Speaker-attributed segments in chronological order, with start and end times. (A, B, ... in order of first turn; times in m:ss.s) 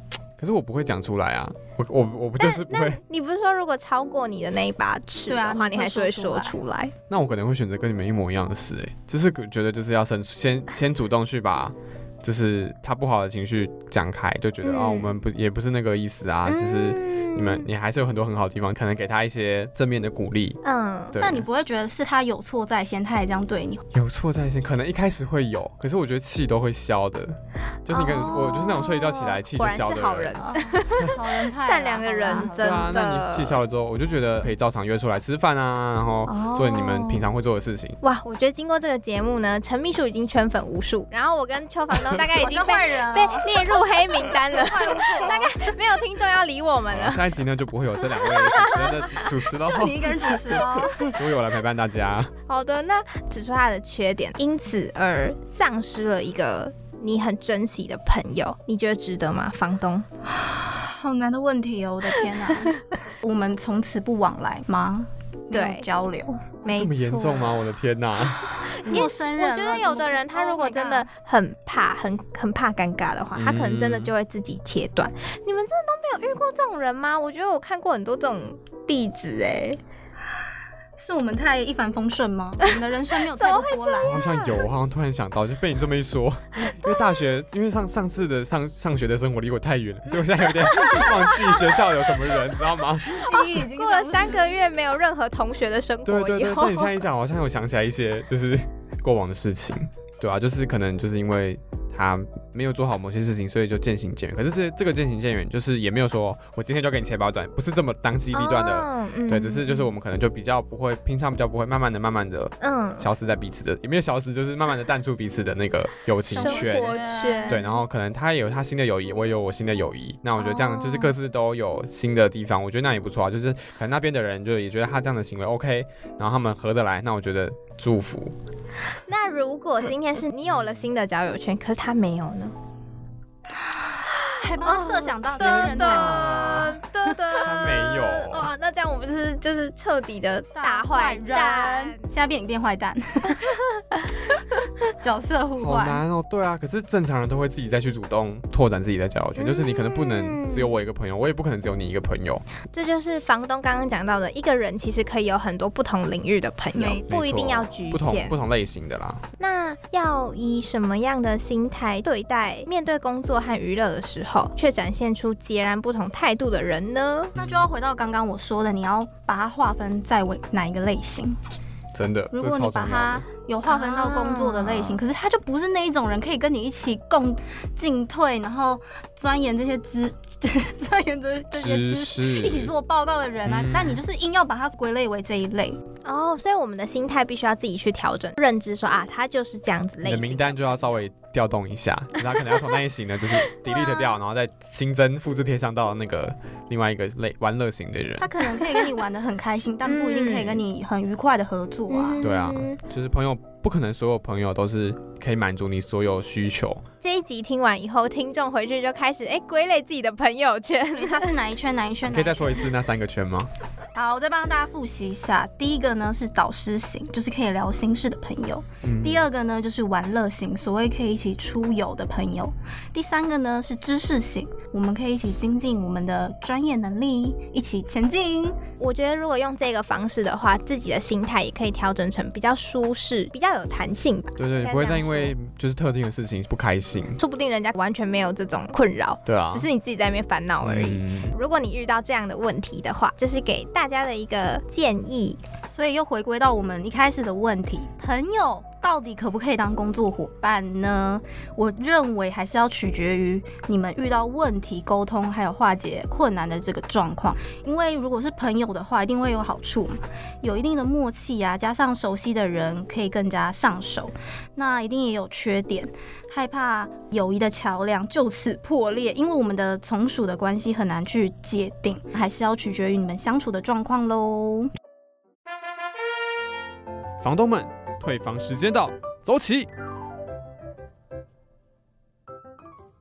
0:00.4-0:03.0 A
0:02.4-0:06.9 B
0:05.3-0:06.6 C
0:07.1-0:20.6 A
0:14.6-0:15.2 B
0:16.4-0:17.6 B
0:20.6-0:21.2 B
0:21.1-0:21.5 A
0:21.2-0:23.8 C
0:23.9-0:30.4 A
0:27.9-0:33.6 B
0:30.4-0:33.0 C
0:32.6-0:38.0 A
0:36.2-0:37.3 B
0:38.0-0:47.2 B
0:42.3-0:43.6 C
0:44.5-0:45.7 C
0:46.9-0:52.3 A
0:48.0-0:49.3 B
0:49.6-0:51.2 C
0:52.5-1:00.1 B
1:00.2-1:07.6 C
1:05.5-1:05.9 B
1:06.6-1:09.0 A
1:08.7-1:19.8 B
1:08.8-1:11.1 C
1:13.3-1:14.1 A
1:21.0-1:24.2 C
1:23.3-1:24.6 B
1:24.0-1:33.6 A
1:30.6-1:31.8 B
1:33.0-1:34.5 C
1:33.5-1:37.0 B
1:36.0-1:57.0 A
1:48.3-1:49.9 B
1:52.6-1:53.1 B
1:56.3-1:57.6 C
1:56.3-1:57.6 B
1:57.5-2:08.3 A
2:00.4-2:01.1 B
2:09.1-2:12.5 B
2:13.6-2:17.2 C
2:14.2-2:22.0 B
2:15.4-2:16.7 A
2:17.4-2:18.5 A
2:20.5-2:23.5 C
2:23.4-2:24.8 B
2:25.0-2:26.0 C
2:25.6-2:32.4 A
2:29.4-2:30.7 B
2:32.7-2:38.3 B
2:36.7-2:37.1 C
2:37.1-2:39.2 A
2:39.4-2:47.3 B
2:47.4-2:47.7 A
2:47.4-2:51.4 C
2:51.9-2:53.2 A
2:52.3-3:05.8 C
2:53.6-2:54.9 B
3:01.5-3:02.7 A
3:03.4-3:04.0 A
3:06.0-3:10.6 B
3:10.0-3:18.4 A
3:13.7-3:14.0 B
3:18.2-3:22.2 C
3:19.8-3:20.6 B
3:21.9-3:22.8 B
3:22.2-3:26.8 A
3:27.0-3:31.3 B
3:31.0-3:32.7 C
3:32.0-3:33.5 A
3:33.9-3:48.6 C
3:38.8-3:39.3 A
3:48.8-3:55.3 B
3:54.4-3:57.2 A
3:57.2-4:05.4 B
3:59.2-3:59.7 A
4:00.6-4:01.3 A
4:05.7-4:34.7 C
4:37.2-4:39.7 A